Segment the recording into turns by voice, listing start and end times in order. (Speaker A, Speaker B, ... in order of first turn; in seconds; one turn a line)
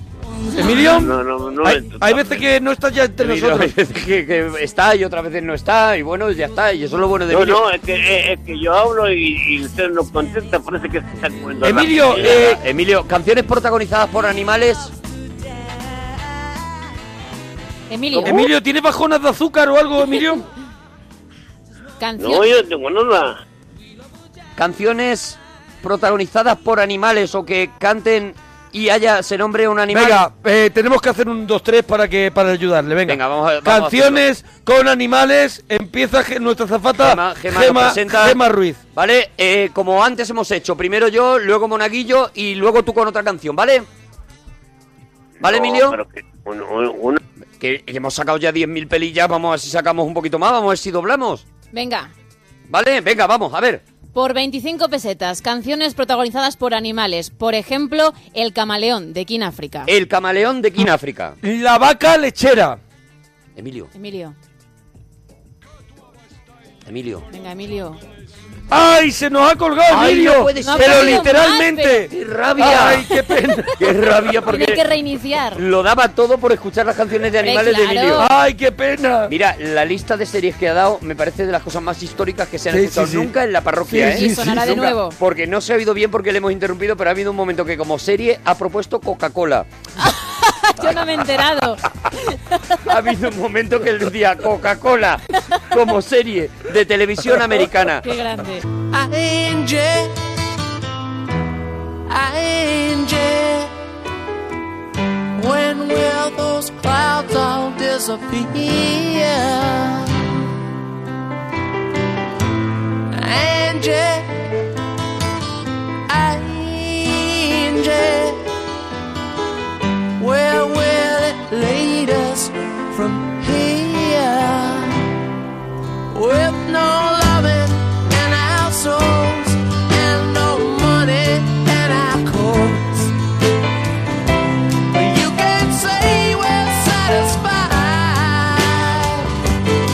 Speaker A: 0.5-3.7
Speaker B: 0.9-2.2
Speaker C: 3.2-7.6
Speaker B: 7.3-12.5
Speaker A: 11.6-12.6
Speaker C: 12.1-14.9
Speaker D: 17.9-18.4
Speaker C: 18.1-18.4
Speaker A: 18.2-20.4
Speaker D: 22.0-22.5
Speaker B: 22.2-23.4
Speaker C: 24.6-30.2
Speaker A: 29.9-38.8
Speaker C: 33.1-34.2
Speaker C: 37.0-38.4
Speaker C: 38.9-43.9
Speaker B: 45.4-47.2
Speaker C: 45.4-46.0
Speaker C: 47.6-51.4
Speaker D: 51.7-52.1
Speaker C: 52.7-53.8
Speaker D: 54.1-59.9
Speaker C: 59.9-61.4
Speaker A: 61.4-62.8
Speaker C: 63.5-63.9
Speaker D: 63.9-64.3
Speaker C: 66.8-67.2
Speaker D: 67.3-68.0
Speaker A: 68.7-74.0
Speaker C: 69.9-71.3
Speaker D: 70.6-72.1
Speaker C: 72.1-73.1
Speaker D: 72.7-73.3
Speaker C: 73.8-74.8
Speaker D: 74.4-75.6
Speaker C: 75.5-78.3
Speaker D: 77.4-78.3
Speaker A: 78.1-79.3
Speaker C: 79.3-89.7
Speaker A: 82.7-83.3
Speaker A: 83.8-84.9
Speaker D: 84.0-85.2
Speaker D: 90.0-92.5
Speaker C: 92.8-98.0
Speaker D: 98.0-98.6
Speaker E: 98.9-100.2
Speaker E: 102.1-103.7
Speaker E: 105.3-110.2
Speaker E: 113.1-114.5
Speaker E: 116.1-118.4
Speaker E: 120.2-125.1
Speaker E: 126.1-133.1
Speaker E: 134.9-139.3